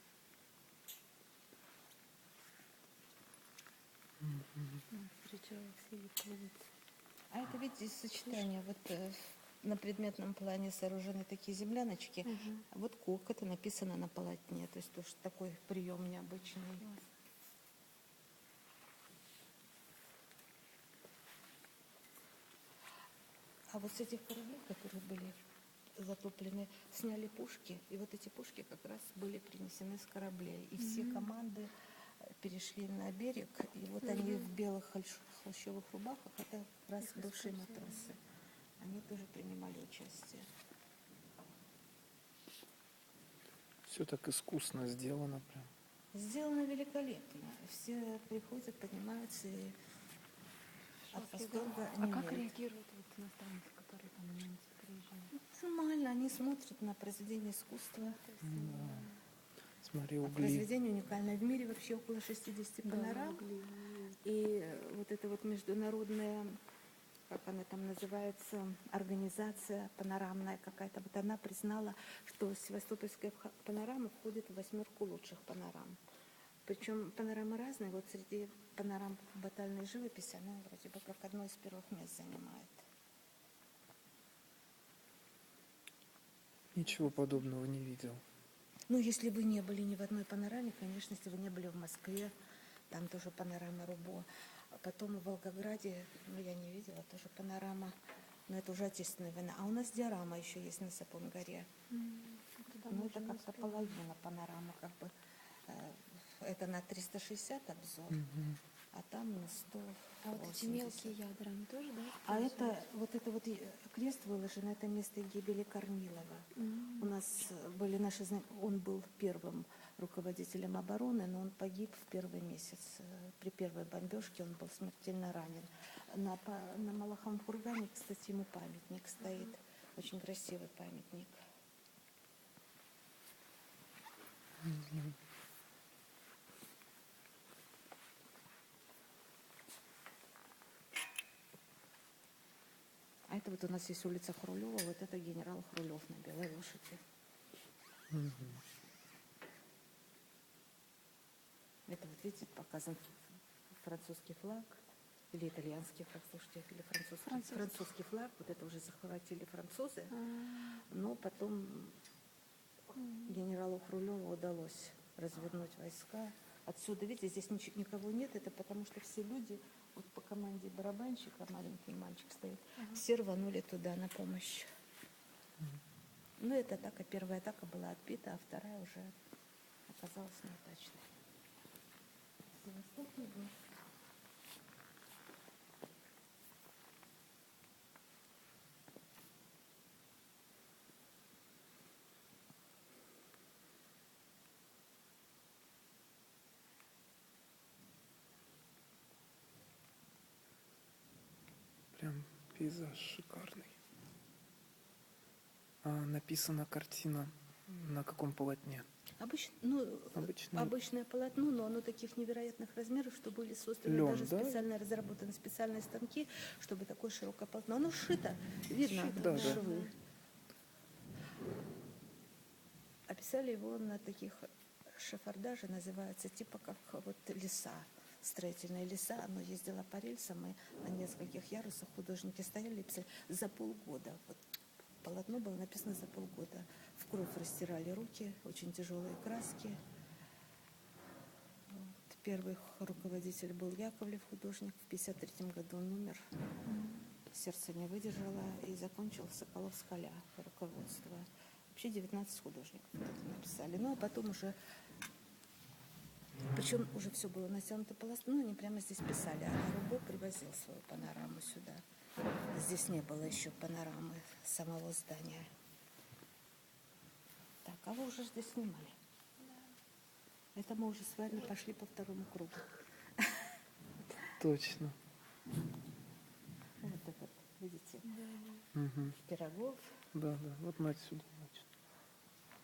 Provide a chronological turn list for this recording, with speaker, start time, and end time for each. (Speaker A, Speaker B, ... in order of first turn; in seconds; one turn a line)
Speaker A: 4.3-4.8
Speaker B: 4.9-6.7
Speaker C: 7.3-16.9
Speaker B: 12.3-12.6
Speaker C: 23.7-25.4
Speaker C: 26.0-31.7
Speaker B: 30.8-31.3
Speaker C: 32.2-38.2
Speaker B: 37.1-38.0
Speaker C: 38.8-40.5
Speaker A: 43.9-45.7
Speaker C: 46.1-49.8
Speaker B: 51.1-55.3
Speaker C: 51.1-52.5
Speaker C: 55.3-58.2
Speaker B: 58.1-59.2
Speaker A: 58.4-59.1
Speaker A: 59.8-60.7
Speaker C: 60.2-63.5
Speaker B: 62.8-64.2
Speaker C: 64.2-66.6
Speaker C: 67.3-76.0
Speaker C: 76.7-82.8
Speaker A: 86.8-88.2
Speaker C: 88.9-92.3
Speaker C: 92.9-97.9
Speaker C: 98.5-101.7
Speaker B: 101.9-104.0
Speaker C: 102.9-105.1
Speaker C: 105.7-111.2
Speaker B: 110.2-112.8
Speaker C: 112.1-131.4
Speaker B: 116.6-117.1
Speaker A: 134.7-135.1
Speaker C: 143.3-147.0
Speaker A: 148.1-148.6
Speaker C: 151.9-154.8
Speaker C: 155.3-160.2
Speaker B: 157.3-157.8
Speaker B: 160.1-160.8
Speaker C: 160.8-162.0
Speaker B: 163.0-163.3
Speaker C: 163.2-174.7
Speaker C: 176.4-179.1
Speaker C: 179.9-181.1
Speaker C: 182.6-183.6
Speaker A: 201.9-203.8
Speaker A: 205.8-208.9
Speaker C: 209.2-219.9
Speaker A: 210.2-210.7
Speaker A: 213.8-214.7
Speaker B: 218.9-219.9
Speaker A: 219.1-219.6
Speaker C: 223.1-234.4
Speaker C: 235.0-239.8
Speaker C: 241.7-246.2
Speaker B: 246.7-247.1
Speaker C: 247.3-254.6
Speaker C: 256.5-261.8
Speaker C: 262.5-265.5
Speaker C: 267.6-269.0
Speaker C: 270.6-273.4
Speaker A: 274.4-275.0
Speaker C: 276.8-278.2
Speaker B: 278.1-278.6
Speaker A: 278.8-279.2
Speaker C: 279.2-279.9
Speaker A: 280.1-281.7